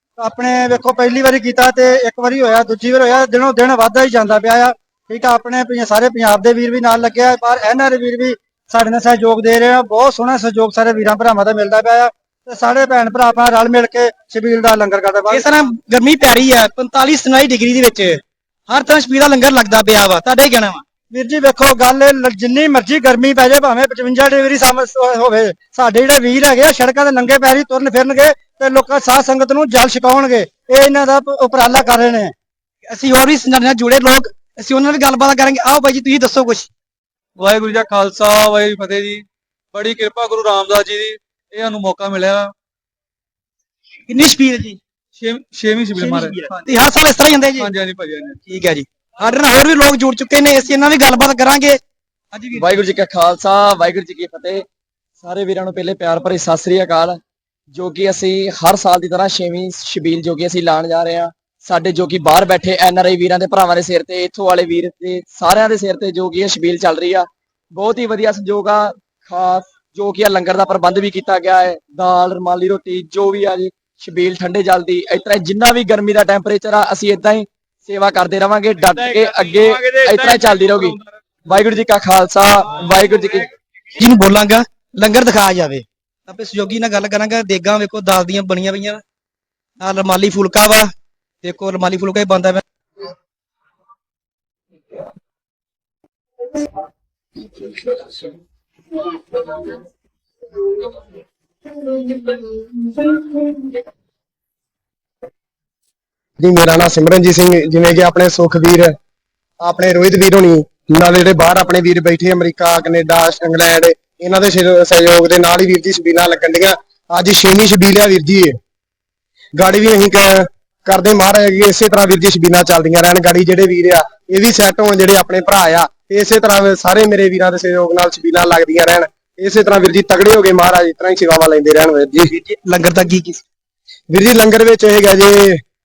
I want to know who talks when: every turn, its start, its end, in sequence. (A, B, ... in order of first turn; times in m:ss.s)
0:00.2-0:15.3 A
0:15.2-0:20.8 B
0:21.1-0:32.3 A
0:32.9-0:36.7 B
0:37.4-0:42.5 C
0:44.1-0:44.8 B
0:45.2-0:46.3 C
0:46.0-0:47.8 B
0:47.6-0:48.4 C
0:48.4-0:51.8 B
0:52.3-0:52.8 B
0:52.5-0:54.6 D
0:55.2-0:57.2 D
0:57.7-1:23.5 D
1:18.8-1:20.9 C
1:24.0-1:29.0 B
1:29.8-1:30.9 B
1:31.4-1:32.6 B
1:46.4-1:48.9 E
1:49.6-1:58.6 E
1:59.6-2:12.4 E
2:12.3-2:13.4 B
2:14.1-2:15.6 E